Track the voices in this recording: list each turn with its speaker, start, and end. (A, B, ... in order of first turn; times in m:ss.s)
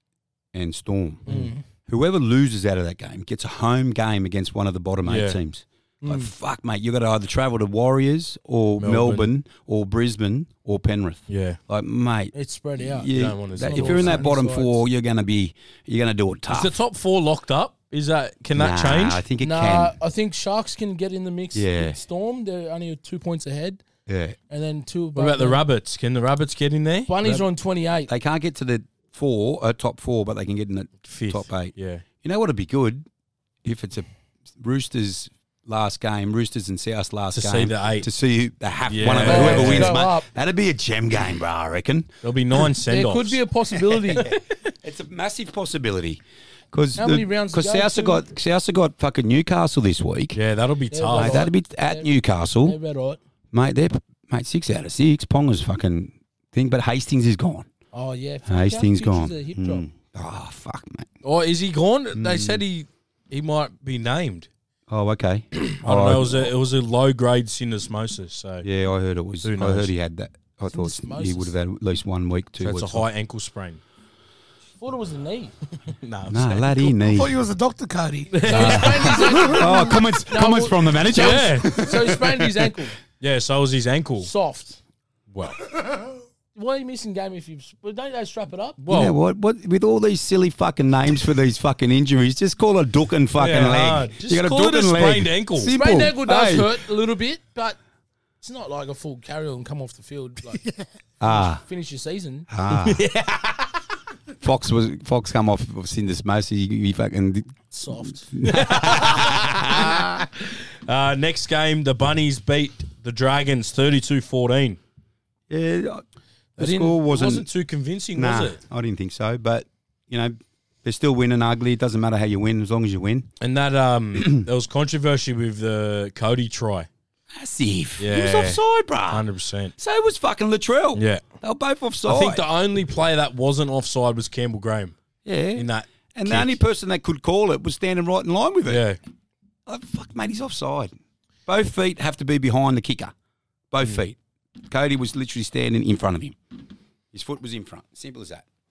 0:00.5-0:01.3 A
0:01.2-0:01.5 B
0:01.3-0:01.6 C
0:01.9-0:16.7 A
0:05.0-0:05.4 B
0:06.0-0:06.3 C
0:08.8-0:09.3 B
0:11.3-0:11.6 B
0:12.3-0:14.8 C
0:13.1-0:14.2 B
0:16.5-0:19.2 B
0:18.5-0:20.0 A
0:19.4-0:23.8 C
0:21.5-0:22.0 A
0:24.1-0:24.4 A
0:24.5-0:25.6 C
0:25.1-0:27.4 B
0:27.1-0:28.1 C
0:28.1-0:33.0 A
0:31.0-0:32.0 B
0:33.6-0:42.1 A
0:37.3-0:38.1 B
0:38.9-0:40.0 B
0:39.2-0:40.2 C
0:42.2-0:43.4 B
0:42.9-0:44.3 C
0:44.2-0:46.2 A
0:46.7-0:50.4 A
0:47.0-0:48.2 C
0:50.3-0:51.5 B
0:50.9-0:52.1 C
0:51.1-0:52.8 A
0:52.6-0:53.2 C
0:53.5-0:57.7 A
0:57.9-0:59.8 C
0:58.5-1:01.1 A
1:01.2-1:04.5 B
1:02.1-1:02.6 A
1:04.9-1:06.5 A
1:05.5-1:08.6 B
1:08.6-1:13.0 A
1:09.4-1:09.9 B
1:10.7-1:11.5 C
1:12.6-1:13.8 B
1:14.8-1:15.5 C
1:15.9-1:16.9 B
1:16.3-1:17.4 A
1:17.0-1:20.0 D
1:18.3-1:19.5 B
1:18.5-1:23.0 C
1:18.5-1:22.7 A
1:21.1-1:21.7 B
1:23.2-1:24.3 B
1:24.2-1:24.8 C
1:25.3-1:25.6 B
1:26.5-1:28.8 C
1:28.8-1:29.2 B
1:28.9-1:36.8 A
1:33.4-1:35.7 B
1:35.7-1:37.8 C
1:38.4-1:40.7 C
1:41.2-1:41.6 A
1:41.3-1:42.5 C
1:42.5-1:43.0 A
1:42.7-1:43.7 B
1:44.4-1:47.6 A
1:47.7-1:49.2 C
1:48.3-1:50.2 A
1:48.4-1:54.8 B
1:55.5-1:56.0 A
1:56.6-1:57.5 A
1:56.6-1:58.6 B
1:58.1-2:03.3 A
2:03.4-2:06.9 B
2:04.2-2:04.5 A
2:07.3-2:09.2 A
2:08.0-2:09.7 B
2:09.8-2:12.4 A
2:10.9-2:11.2 B
2:12.0-2:14.9 B
2:15.2-2:18.8 A
2:15.6-2:16.6 B
2:18.7-2:19.0 B
2:19.7-2:20.9 A
2:21.5-2:23.1 A
2:23.7-2:24.2 A
2:24.7-2:26.4 A
2:27.1-2:28.4 A